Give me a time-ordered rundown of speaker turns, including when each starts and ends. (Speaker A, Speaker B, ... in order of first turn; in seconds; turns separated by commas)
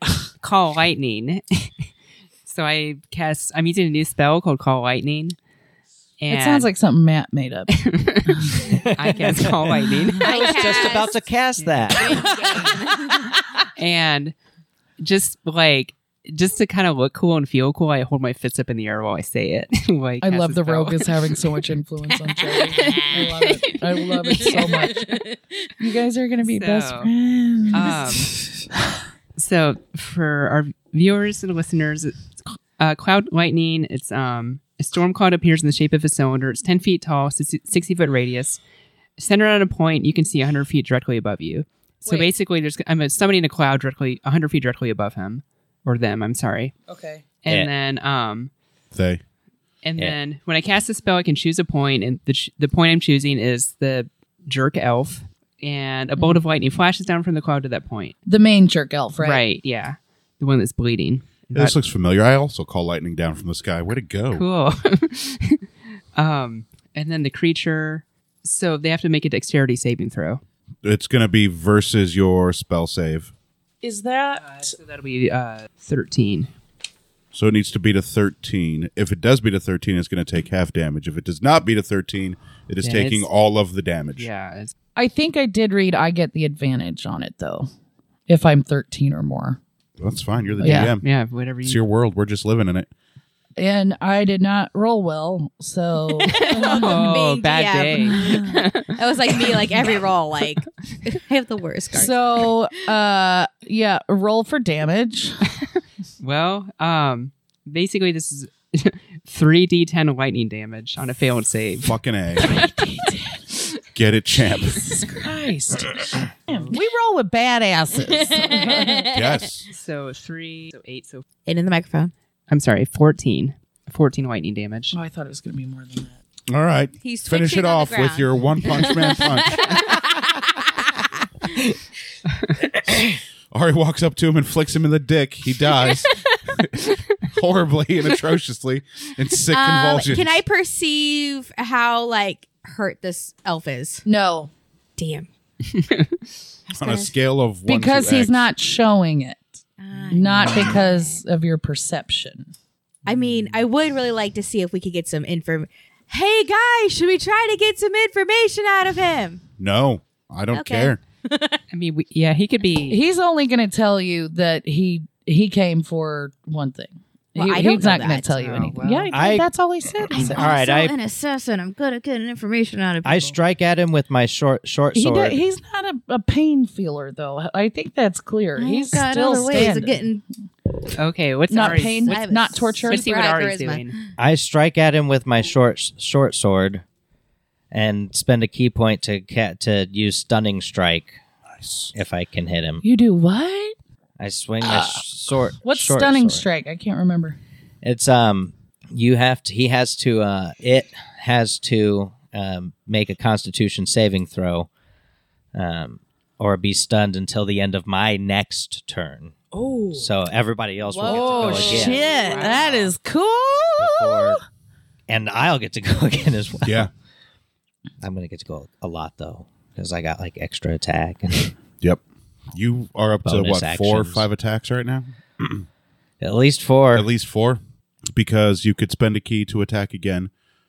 Speaker A: 0.4-1.7, Speaker A: 2.5-5.4, Speaker A: 6.2-6.7, Speaker B: 6.3-7.7, Speaker A: 7.7-11.0, Speaker B: 8.3-8.8, Speaker C: 8.7-12.3, Speaker D: 10.2-11.2, Speaker B: 10.3-10.9, Speaker A: 11.6-12.0, Speaker D: 11.9-13.3, Speaker B: 12.4-13.1, Speaker A: 13.8-14.3, Speaker A: 15.0-21.1, Speaker B: 20.2-25.2, Speaker D: 22.3-23.8, Speaker D: 24.3-25.7, Speaker A: 24.4-25.0, Speaker B: 25.8-28.2, Speaker A: 26.5-27.1, Speaker A: 27.7-28.4, Speaker A: 29.4-38.6, Speaker A: 39.2-46.7, Speaker B: 46.9-47.2, Speaker A: 47.4-48.5, Speaker E: 48.9-49.2, Speaker A: 49.8-58.1, Speaker B: 58.3-59.4, Speaker A: 59.2-61.8, Speaker E: 61.5-64.5, Speaker A: 64.3-65.6, Speaker A: 66.2-70.4, Speaker E: 70.8-73.3, Speaker B: 73.8-74.8, Speaker A: 74.4-76.5, Speaker E: 77.3-84.3, Speaker A: 82.8-83.3, Speaker A: 84.2-84.7, Speaker B: 85.0-87.7, Speaker B: 88.3-89.6, Speaker E: 90.0-91.1, Speaker A: 90.5-91.8, Speaker B: 90.6-90.9, Speaker E: 91.6-92.9, Speaker B: 93.6-97.2, Speaker D: 96.1-102.5, Speaker A: 96.5-99.6, Speaker B: 98.1-98.6, Speaker B: 101.9-105.5, Speaker A: 106.2-112.5, Speaker E: 111.8-112.5, Speaker B: 112.4-113.5, Speaker E: 113.9-115.1, Speaker B: 114.7-119.1, Speaker A: 116.5-116.8, Speaker D: 118.1-119.4, Speaker E: 119.1-119.7, Speaker A: 119.7-121.2, Speaker D: 121.5-122.1, Speaker A: 122.5-125.0, Speaker B: 124.9-126.2, Speaker E: 126.5-129.8, Speaker D: 127.0-131.6, Speaker E: 133.5-140.4, Speaker D: 136.0-136.4, Speaker D: 139.5-144.0, Speaker B: 144.1-144.5, Speaker D: 145.0-145.3, Speaker A: 145.7-146.2, Speaker D: 146.7-147.1, Speaker E: 146.8-148.5, Speaker B: 147.7-149.5, Speaker D: 149.8-151.2, Speaker B: 150.1-152.5, Speaker D: 153.1-159.4, Speaker E: 159.6-161.0, Speaker D: 160.5-161.6, Speaker A: 161.7-163.0, Speaker B: 162.9-170.4, Speaker D: 167.4-168.3, Speaker A: 168.3-169.1, Speaker C: 169.1-170.9, Speaker D: 170.1-173.4, Speaker C: 173.0-175.4, Speaker B: 174.9-180.0, Speaker D: 178.6-180.2, Speaker A: 181.0-182.2, Speaker B: 181.5-183.1, Speaker D: 181.8-183.9, Speaker A: 182.9-184.0, Speaker C: 184.2-186.8, Speaker C: 187.7-191.2, Speaker E: 191.6-191.9, Speaker C: 191.9-192.8, Speaker B: 192.8-193.7, Speaker C: 194.2-196.5, Speaker B: 194.6-197.4, Speaker C: 197.8-204.7, Speaker C: 205.5-209.4, Speaker B: 209.5-210.1, Speaker C: 209.9-212.0, Speaker D: 210.8-212.7, Speaker B: 211.1-214.4, Speaker A: 211.5-212.9, Speaker C: 213.8-214.4, Speaker C: 215.1-216.9, Speaker E: 216.7-216.9, Speaker C: 218.0-221.6, Speaker E: 222.5-225.7, Speaker C: 223.2-224.3, Speaker C: 226.2-227.1, Speaker E: 226.9-227.6, Speaker E: 228.1-230.3